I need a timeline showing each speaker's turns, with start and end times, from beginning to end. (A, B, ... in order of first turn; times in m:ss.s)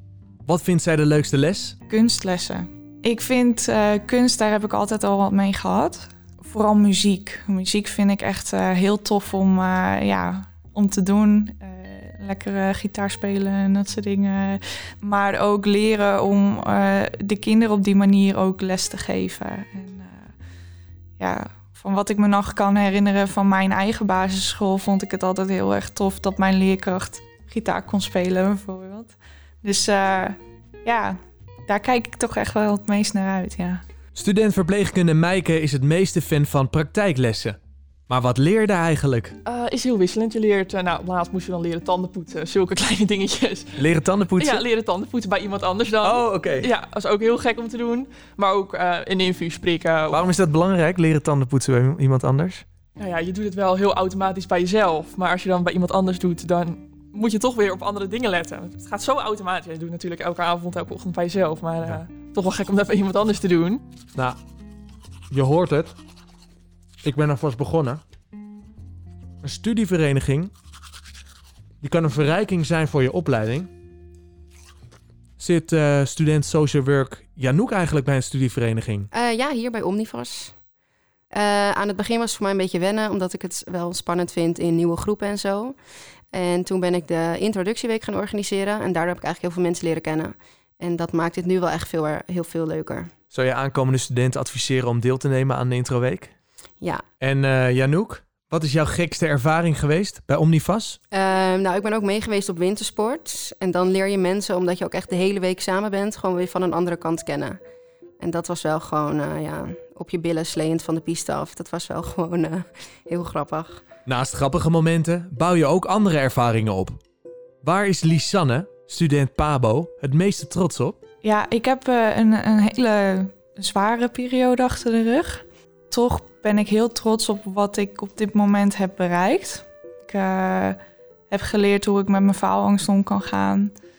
0:00.4-0:01.8 A
0:01.9-0:20.3 B
0:21.2-0:33.8 B
0:34.1-0:37.6 A
0:38.1-0:39.3 A
0:39.4-0:43.8 C
0:43.8-0:44.6 A
0:44.4-0:50.2 C
0:46.0-0:46.7 A
0:50.1-0:52.6 A
0:53.0-1:03.8 C
1:05.3-1:06.0 A
1:07.0-1:08.0 A
1:09.4-1:10.5 A
1:11.8-1:13.7 A
1:15.4-1:19.1 A
1:19.1-1:20.5 D
1:21.3-1:25.8 D
1:26.3-1:33.1 D
1:33.3-1:36.3 A
1:37.2-1:41.0 A
1:41.1-1:47.6 D
1:48.2-1:53.8 D
1:54.0-1:57.0 A
1:57.6-2:01.0 A
2:01.2-2:10.8 B
2:11.3-2:13.7 B